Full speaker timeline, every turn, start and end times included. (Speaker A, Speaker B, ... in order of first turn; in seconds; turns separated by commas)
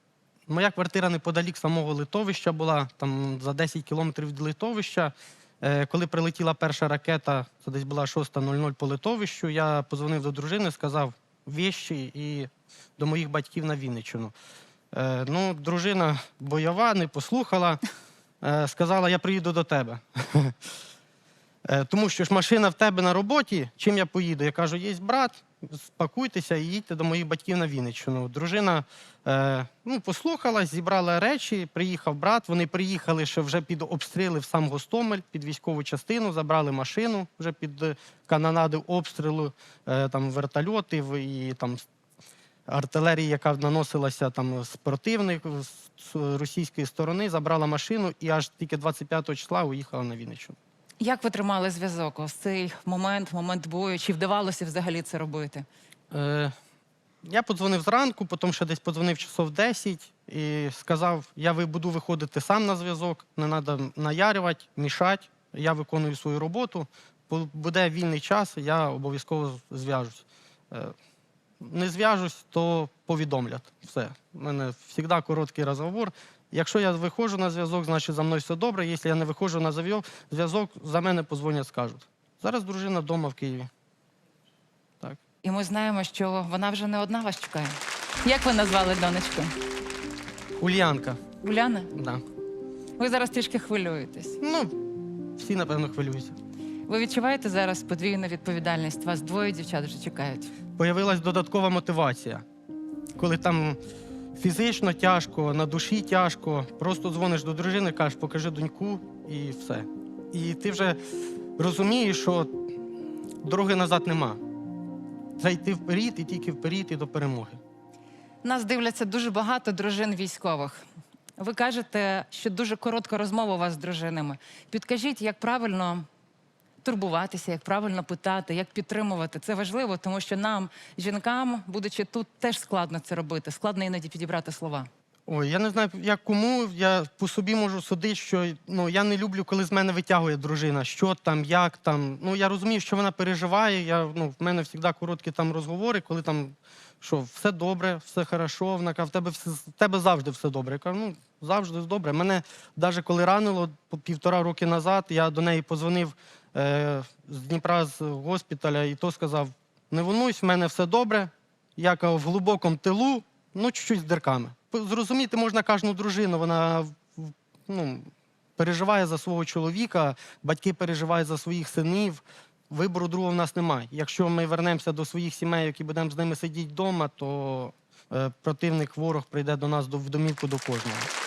Speaker A: 0.5-14.3, Speaker A: 14.9-17.8, Speaker A: 18.4-20.6, Speaker A: 21.7-41.8, Speaker A: 42.7-50.6, Speaker B: 51.0-55.6, Speaker A: 56.1-56.5, Speaker A: 57.2-70.9, Speaker A: 71.6-83.7, Speaker B: 85.4-89.5, Speaker A: 90.6-91.2, Speaker B: 91.4-91.9, Speaker A: 91.9-92.2, Speaker B: 93.0-94.4, Speaker A: 94.4-94.8, Speaker A: 95.4-96.4, Speaker B: 96.9-100.5, Speaker A: 100.8-102.4, Speaker A: 103.2-103.8, Speaker A: 104.4-111.0, Speaker A: 111.6-112.5, Speaker A: 113.4-114.4, Speaker A: 115.4-117.6, Speaker B: 118.4-120.8, Speaker B: 121.4-126.1, Speaker B: 126.8-134.9, Speaker A: 135.3-181.1